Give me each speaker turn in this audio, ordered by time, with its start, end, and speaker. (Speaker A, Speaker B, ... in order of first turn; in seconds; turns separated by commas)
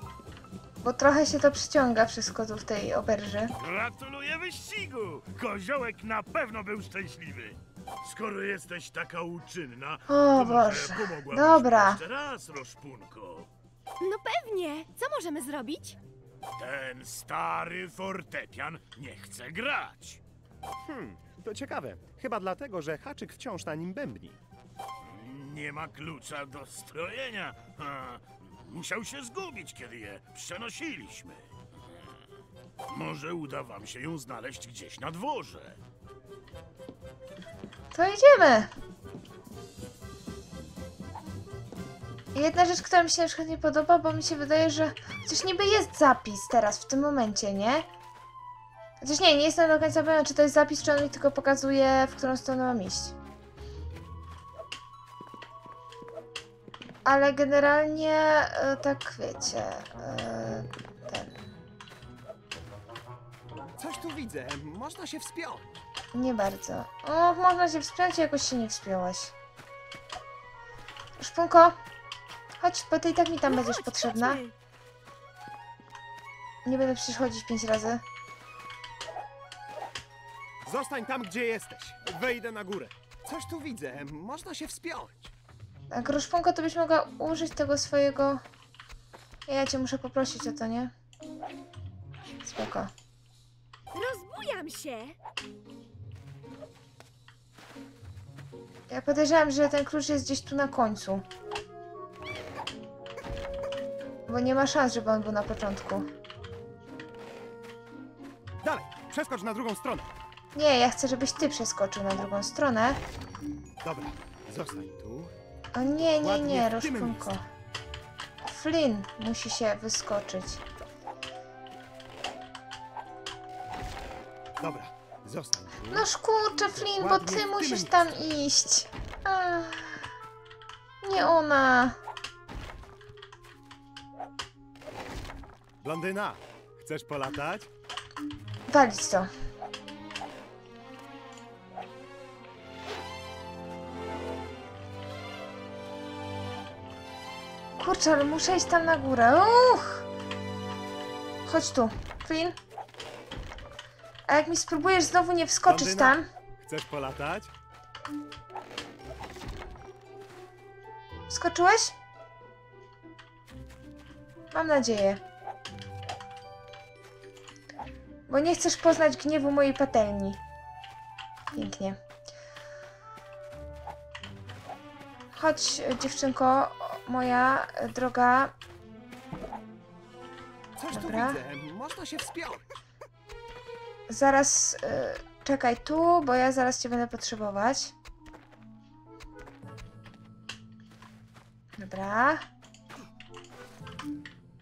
Speaker A: 0.8-3.5, Speaker B: 3.6-13.5, Speaker A: 10.1-12.0, Speaker C: 14.0-16.0, Speaker B: 16.6-20.2, Speaker D: 20.8-24.4, Speaker B: 25.1-31.5, Speaker B: 32.9-35.8, Speaker A: 37.9-38.7, Speaker A: 42.3-47.9, Speaker A: 49.0-53.1, Speaker A: 57.0-61.4, Speaker D: 63.8-65.7, Speaker A: 66.1-69.3, Speaker A: 71.2-71.8, Speaker A: 72.6-74.4, Speaker C: 73.5-74.5, Speaker A: 76.6-78.0, Speaker D: 80.6-85.3, Speaker A: 85.9-88.4, Speaker A: 89.5-90.9, Speaker A: 92.4-92.9, Speaker C: 93.9-95.2, Speaker A: 98.9-101.2, Speaker A: 104.3-106.1, Speaker D: 108.6-110.1, Speaker A: 110.5-113.0, Speaker D: 113.8-115.3, Speaker A: 115.7-117.4, Speaker D: 116.2-117.3, Speaker A: 118.4-120.6, Speaker D: 124.6-126.1, Speaker A: 125.9-130.0, Speaker D: 126.8-128.1, Speaker A: 131.0-132.0, Speaker D: 135.8-137.7, Speaker A: 138.7-139.3, Speaker A: 147.8-150.0, Speaker A: 151.4-152.6, Speaker A: 154.3-156.2, Speaker D: 155.6-157.5, Speaker A: 161.3-161.9, Speaker A: 164.5-165.2, Speaker A: 168.3-170.4, Speaker A: 171.5-172.0, Speaker A: 175.3-178.5, Speaker D: 180.8-182.8, Speaker A: 180.9-181.4, Speaker A: 184.1-187.9, Speaker A: 191.8-192.5